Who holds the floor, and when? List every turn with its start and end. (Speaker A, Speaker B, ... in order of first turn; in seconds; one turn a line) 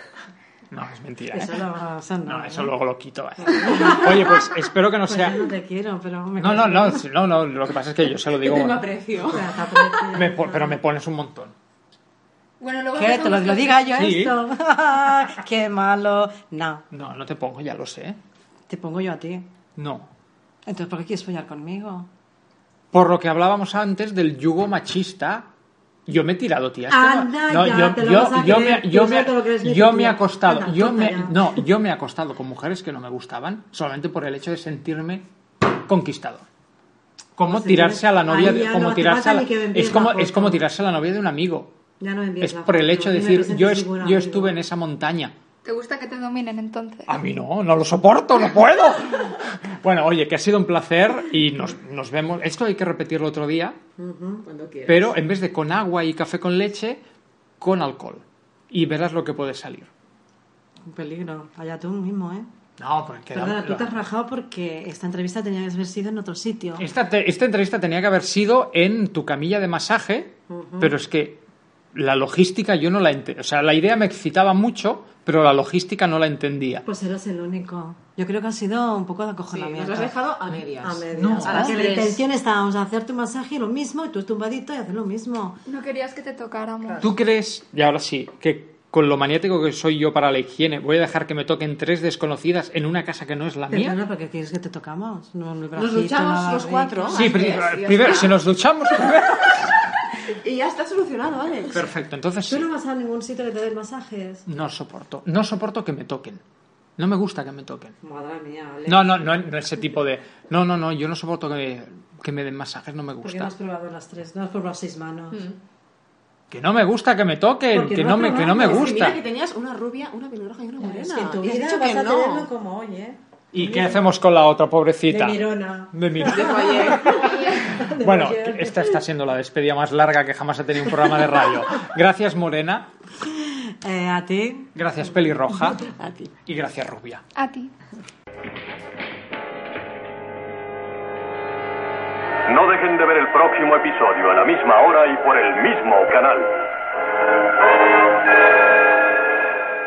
Speaker A: 0.7-1.6
Speaker B: 1.3-2.7
Speaker A: 2.3-5.4
Speaker B: 3.4-4.5
Speaker B: 5.0-7.1
Speaker A: 6.4-9.4
Speaker C: 8.3-9.4
Speaker B: 9.3-10.8
Speaker A: 10.1-11.5
Speaker D: 12.6-14.0
Speaker B: 12.9-16.9
Speaker A: 13.9-14.4
Speaker A: 16.9-18.2
Speaker B: 18.7-19.5
Speaker A: 19.8-20.1
Speaker B: 20.7-22.1
Speaker A: 22.9-25.5
Speaker A: 26.1-36.5
Speaker B: 26.9-31.6
Speaker A: 37.4-41.8
Speaker B: 37.5-40.6
Speaker B: 42.0-44.6
Speaker A: 42.4-45.3
Speaker D: 45.6-47.1
Speaker A: 47.1-53.8
Speaker B: 54.0-54.5
Speaker C: 54.5-55.2
Speaker A: 54.9-57.0
Speaker A: 57.6-59.9
Speaker B: 60.9-62.5
Speaker A: 62.8-63.9
Speaker B: 63.3-66.9
Speaker A: 66.8-71.4
Speaker B: 70.5-71.0
Speaker A: 71.9-76.8
Speaker B: 76.8-80.2
Speaker C: 79.5-82.2
Speaker B: 80.8-85.6
Speaker A: 81.2-81.8
Speaker D: 85.7-87.1
Speaker A: 87.0-94.0
Speaker B: 93.7-97.2
Speaker C: 95.8-98.4
Speaker A: 97.1-99.8
Speaker C: 100.3-101.9
Speaker A: 101.7-102.7
Speaker B: 102.5-104.5
Speaker A: 104.5-106.4
Speaker A: 107.0-108.0
Speaker B: 108.0-109.2
Speaker A: 108.9-113.5
Speaker B: 113.2-115.4
Speaker A: 116.5-119.2
Speaker B: 117.7-119.1
Speaker C: 118.5-122.5
Speaker B: 120.8-124.1
Speaker A: 123.5-132.9
Speaker B: 125.1-129.0
Speaker C: 126.2-127.4
Speaker B: 133.3-134.7
Speaker A: 134.8-135.8
Speaker C: 135.9-136.3
Speaker A: 136.5-137.2
Speaker D: 137.3-137.7
Speaker E: 142.5-146.7